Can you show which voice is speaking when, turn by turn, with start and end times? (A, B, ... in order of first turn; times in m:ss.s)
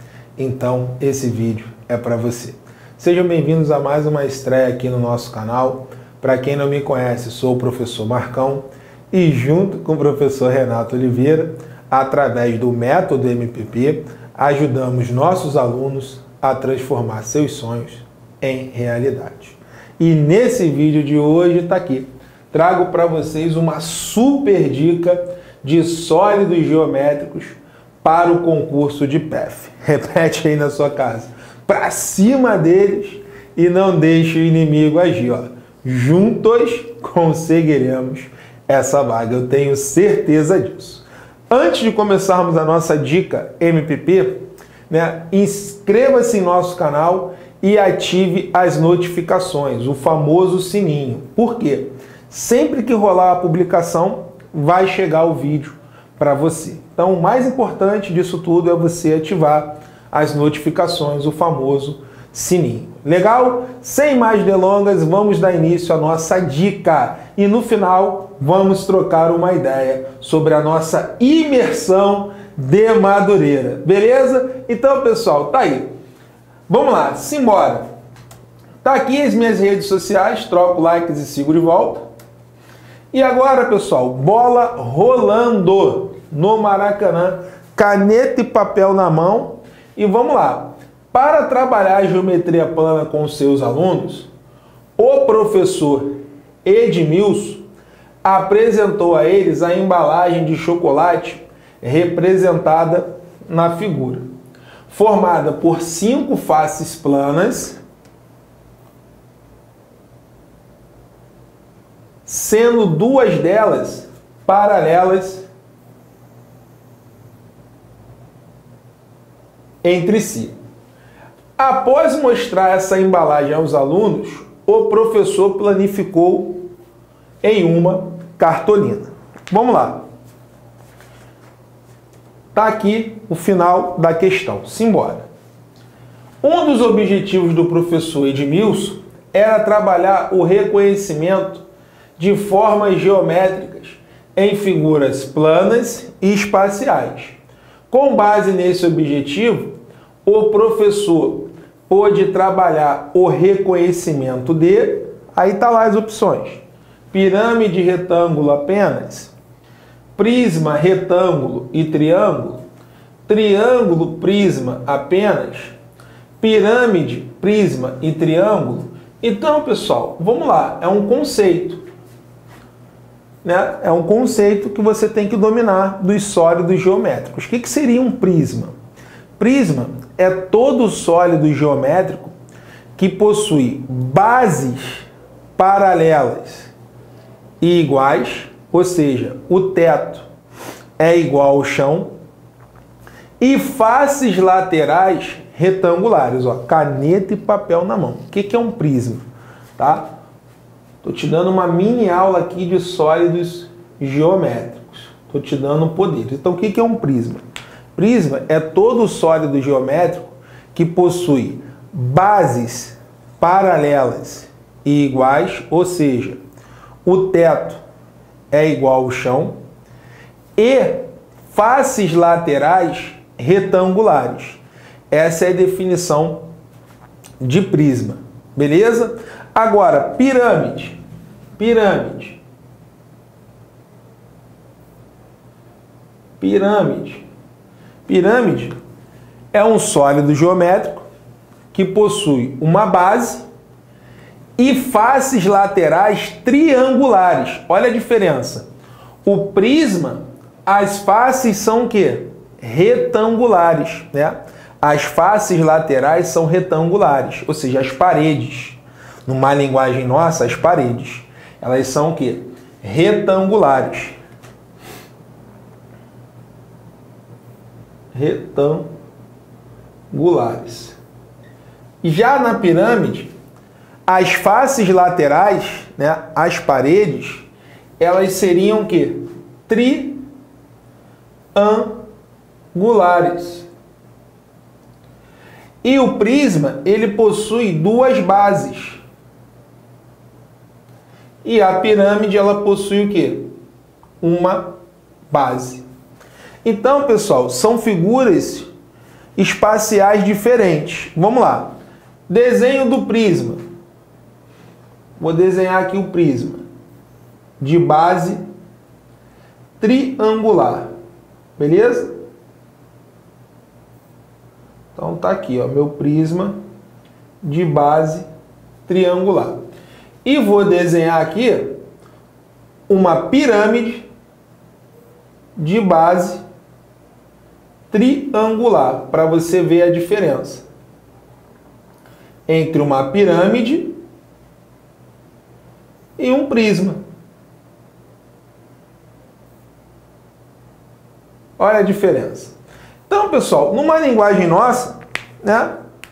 0:00.4-1:15.9 A
1:16.7-1:17.8 A
1:18.8-1:22.0 A
1:23.1-1:34.3 A
1:35.0-1:37.6 A
1:38.2-1:44.2 A
1:44.9-1:47.8 A
1:52.2-1:55.5 A
1:59.8-2:00.5 A
2:01.6-2:06.6 A
2:07.4-2:10.0 A
2:12.5-2:15.3 A
2:16.4-2:21.6 A
2:22.2-2:27.4 A
2:27.9-2:39.3 A
2:40.2-2:42.6 A
2:43.3-2:45.8 A
2:46.4-2:51.8 A
2:53.4-2:58.7 A
2:59.4-3:02.3 A
3:03.0-3:05.0 A
3:05.6-3:06.7 A
3:07.6-3:10.3 A
3:11.0-3:12.1 A
3:13.4-3:19.2 A
3:19.8-3:20.1 A
3:21.0-3:27.4 A
3:27.9-3:36.4 A
3:37.0-3:37.8 A
3:38.5-3:39.6 A
3:40.6-3:46.4 A
3:47.4-3:51.0 A
3:51.6-3:52.4 A
3:56.4-3:57.2 A
3:58.0-3:58.7 A
3:59.5-4:01.0 A
4:01.7-4:03.4 A
4:04.6-4:08.7 A
4:09.2-4:24.2 A
4:28.1-4:28.9 A
4:30.1-4:31.0 A
4:32.0-4:33.3 A
4:34.1-4:37.5 A
4:38.0-4:40.2 A
4:41.5-4:42.0 A
4:42.7-4:43.7 A
4:45.8-4:49.0 A
4:51.4-4:53.5 A
4:54.2-4:54.7 A
4:55.3-4:55.8 A
4:56.6-4:58.7 A
4:59.4-5:01.8 A
5:02.3-5:03.6 A
5:05.2-5:06.6 A
5:07.6-5:08.4 A
5:09.8-5:10.9 A
5:11.6-5:12.1 A
5:14.9-5:16.6 A
5:17.4-5:18.2 A
5:18.8-5:19.6 A
5:20.2-5:21.8 A
5:22.9-5:24.1 A
5:25.6-5:26.4 A
5:27.9-5:30.6 A
5:32.5-5:34.0 A
5:36.2-5:37.0 A
5:41.6-5:42.5 A
5:43.1-5:45.8 A